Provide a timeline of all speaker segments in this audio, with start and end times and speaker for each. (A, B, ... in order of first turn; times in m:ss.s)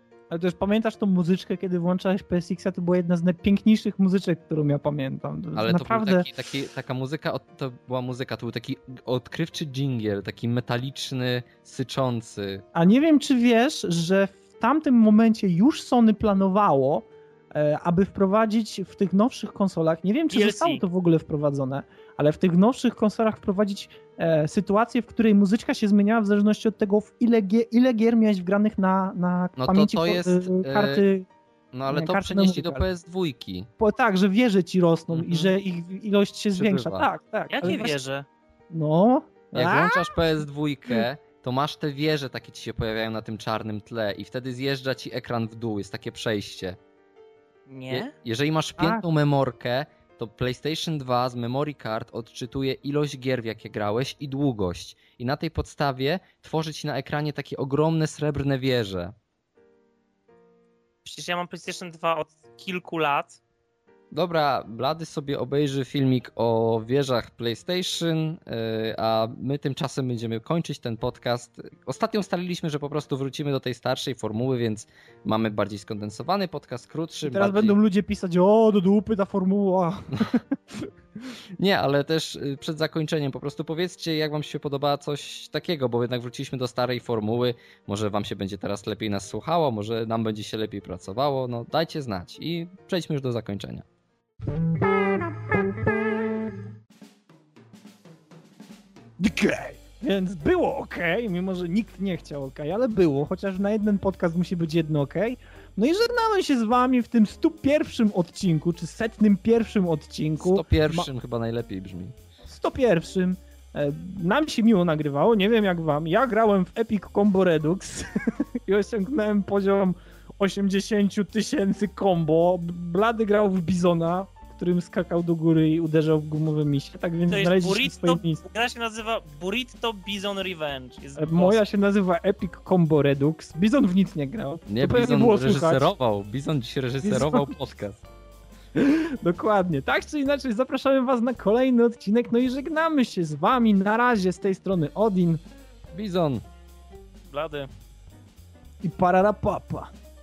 0:00.3-0:06.3 A
0:05.6-0:12.6 B
0:12.7-0:31.3 A
0:20.3-0:20.8 C
0:29.6-0:31.0 B
0:31.7-0:33.7 B
0:31.9-0:32.8 A
0:33.8-0:38.0 A
0:35.1-0:35.5 B
0:36.5-0:37.1 B
0:37.5-0:38.3 C
0:38.7-0:40.1 A
0:39.5-0:46.8 B
0:47.7-0:48.1 C
0:47.9-0:59.1 B
0:48.8-0:49.0 A
1:01.0-1:03.4 C
1:04.1-1:17.8 B
1:17.2-1:20.9 A
1:21.6-1:33.8 B
1:39.2-1:51.1 A
1:50.4-1:52.1 B
1:52.5-2:08.4 A
2:07.3-2:11.6 C
2:11.2-2:15.9 A
2:14.7-2:18.0 B
2:17.0-2:17.5 A
2:18.7-2:25.4 A
2:25.9-2:26.4 B
2:27.3-2:27.7 C
2:28.8-2:29.9 A